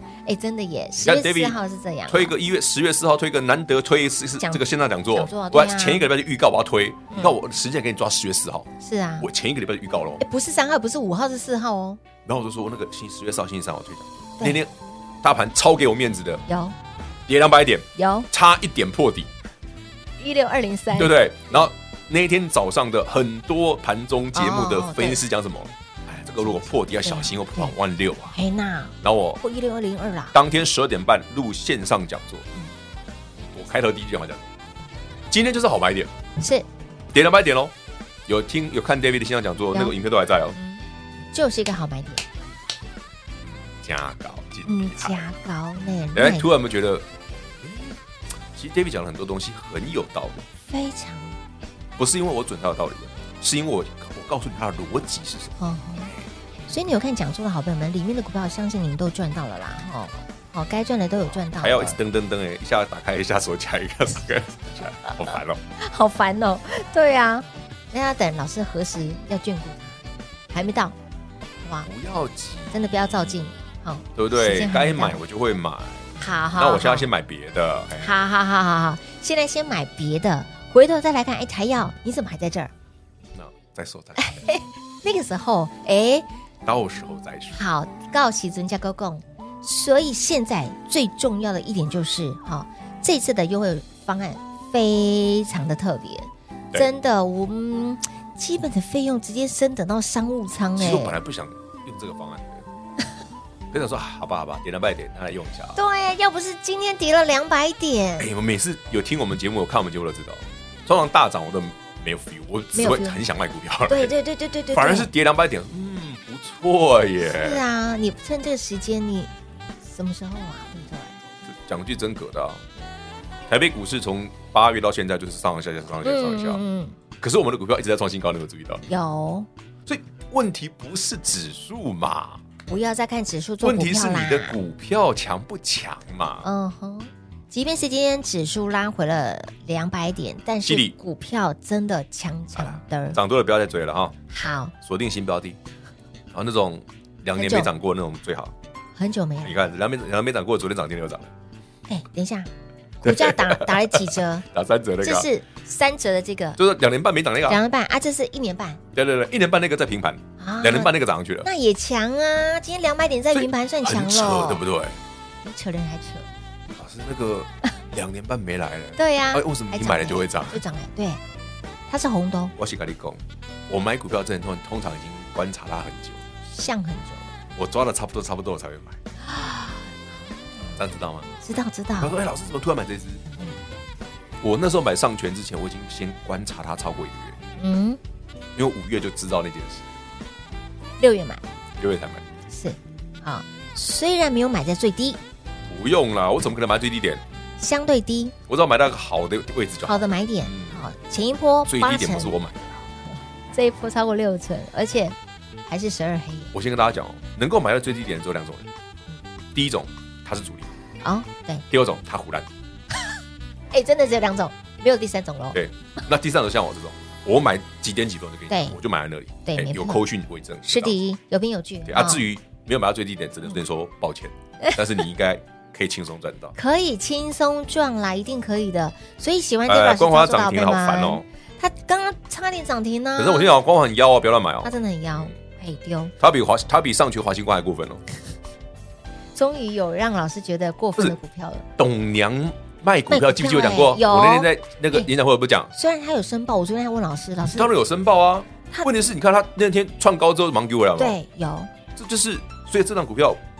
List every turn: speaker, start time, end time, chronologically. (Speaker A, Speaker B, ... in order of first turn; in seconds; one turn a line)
Speaker A: 0.3-2.4
Speaker B: 1.0-1.6
Speaker B: 2.1-10.2
Speaker A: 4.4-6.1
Speaker A: 8.8-9.3
Speaker A: 10.2-12.0
Speaker B: 12.2-16.4
Speaker A: 16.5-16.8
Speaker B: 17.3-19.3
Speaker A: 18.0-18.3
Speaker A: 20.2-21.2
Speaker B: 21.0-28.4
Speaker A: 24.3-25.2
Speaker A: 27.0-27.7
Speaker A: 28.3-30.3
Speaker B: 29.0-29.4
Speaker B: 30.3-32.5
Speaker B: 33.5-34.4
Speaker B: 35.3-36.1
Speaker A: 36.4-36.7
Speaker B: 37.1-37.7
Speaker B: 38.3-40.6
Speaker A: 39.7-40.0
Speaker A: 40.6-42.3
Speaker B: 43.4-45.3
Speaker A: 44.7-46.5
Speaker B: 46.1-47.1
Speaker B: 47.6-48.0
Speaker B: 48.5-50.5
Speaker A: 50.7-51.4
Speaker B: 52.0-55.6
Speaker A: 55.6-56.1
Speaker A: 56.7-62.0
Speaker B: 61.2-65.6
Speaker A: 65.1-70.0
Speaker A: 70.5-71.0
Speaker B: 71.8-72.9
Speaker A: 72.7-75.2
Speaker B: 74.2-78.1
Speaker A: 76.2-77.1
Speaker A: 78.0-82.7
Speaker B: 83.3-84.4
Speaker A: 84.2-86.3
Speaker B: 86.7-87.6
Speaker A: 87.5-101.2
Speaker B: 100.8-102.6
Speaker B: 103.7-105.8
Speaker A: 105.8-108.3
Speaker B: 108.2-114.2
Speaker A: 112.8-113.2
Speaker A: 113.9-115.1
Speaker B: 114.7-117.6
Speaker A: 117.2-119.3
Speaker A: 119.8-121.1
Speaker B: 121.5-122.6
Speaker B: 123.5-126.6
Speaker A: 126.0-127.0
Speaker B: 127.2-128.8
Speaker A: 128.9-129.5
Speaker B: 129.9-132.4
Speaker A: 132.7-134.6
Speaker B: 133.6-136.5
Speaker A: 136.4-143.2
Speaker B: 140.7-140.9
Speaker B: 142.6-144.2
Speaker A: 144.3-144.7
Speaker B: 144.8-145.6
Speaker B: 146.3-148.5
Speaker A: 147.4-147.7
Speaker A: 149.0-149.6
Speaker B: 149.4-151.3
Speaker A: 151.9-152.5
Speaker A: 153.0-154.5
Speaker B: 153.0-155.3
Speaker A: 155.0-156.6
Speaker B: 156.6-157.6
Speaker A: 157.5-158.8
Speaker B: 158.9-161.5
Speaker A: 160.4-164.6
Speaker B: 163.3-165.0
Speaker A: 165.4-166.3
Speaker B: 166.7-170.6
Speaker A: 169.0-171.2
Speaker A: 171.9-172.5
Speaker B: 172.6-176.2
Speaker A: 176.5-177.3
Speaker B: 177.6-179.0
Speaker A: 179.2-180.8
Speaker B: 180.8-181.3
Speaker A: 181.4-182.2
Speaker B: 182.0-183.2
Speaker B: 184.4-187.4
Speaker A: 187.6-188.0
Speaker B: 188.6-189.9
Speaker A: 191.0-191.4
Speaker B: 191.8-192.2
Speaker A: 192.5-195.2
Speaker B: 195.7-197.2
Speaker A: 197.6-198.3
Speaker B: 198.5-200.8
Speaker A: 199.9-202.3
Speaker B: 201.7-202.9
Speaker A: 203.5-205.2
Speaker A: 205.7-206.5
Speaker B: 206.5-208.7
Speaker B: 209.5-210.7
Speaker A: 211.0-211.7
Speaker B: 211.7-212.5
Speaker A: 213.7-215.6
Speaker B: 215.5-221.0
Speaker A: 218.5-218.8
Speaker A: 219.4-220.1
Speaker A: 220.7-222.2
Speaker B: 221.9-226.6
Speaker A: 226.6-233.5
Speaker B: 229.7-231.2
Speaker B: 233.2-235.3
Speaker A: 234.6-236.1
Speaker B: 236.2-238.0
Speaker A: 239.3-241.7
Speaker B: 241.8-245.7
Speaker A: 243.1-245.1
Speaker A: 245.7-247.7
Speaker B: 247.5-251.2
Speaker A: 251.0-251.7
Speaker B: 252.0-253.4